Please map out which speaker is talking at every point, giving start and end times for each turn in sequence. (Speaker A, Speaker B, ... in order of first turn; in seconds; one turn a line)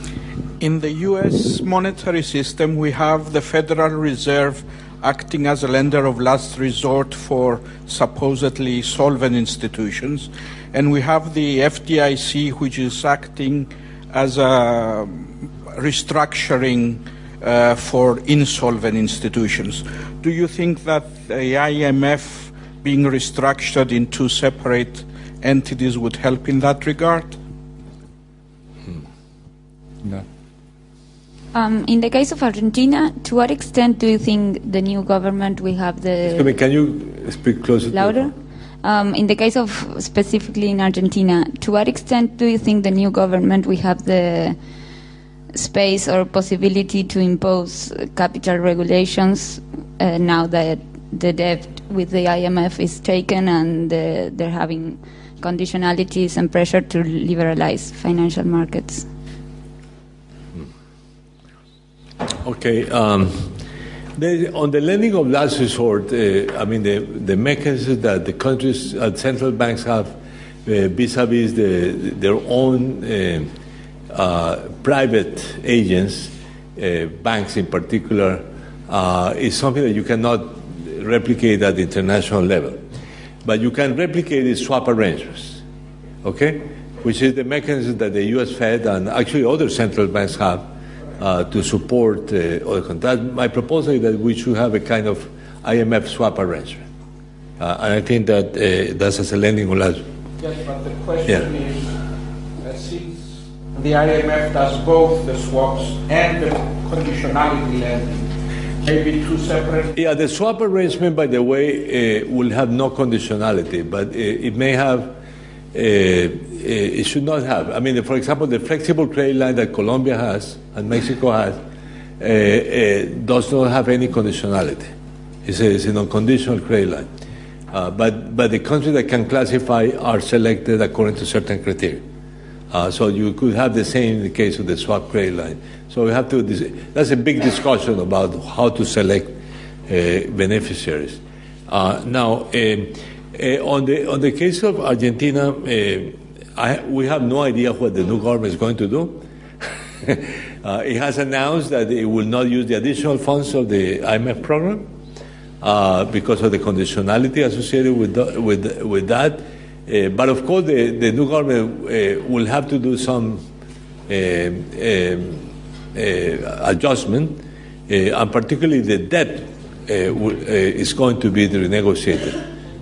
Speaker A: 0.6-27.4
Speaker B: 31.5-36.5
Speaker C: 36.2-38.3
Speaker B: 37.9-38.3
Speaker B: 38.8-44.6
Speaker B: 45.5-59.0
Speaker C: 62.4-63.5
Speaker C: 64.2-70.1
Speaker C: 70.7-73.5
Speaker C: 74.1-82.8
Speaker C: 83.4-85.6
Speaker C: 86.2-96.9
Speaker C: 97.6-100.0
Speaker A: 100.4-101.9
Speaker A: 102.6-108.3
Speaker A: 108.8-110.0
Speaker C: 109.9-115.1
Speaker C: 115.7-121.6
Speaker C: 122.2-124.9
Speaker C: 125.5-127.1
Speaker C: 127.7-132.0
Speaker C: 132.7-139.3
Speaker C: 139.9-154.9
Speaker C: 155.6-163.4
Speaker C: 164.1-172.4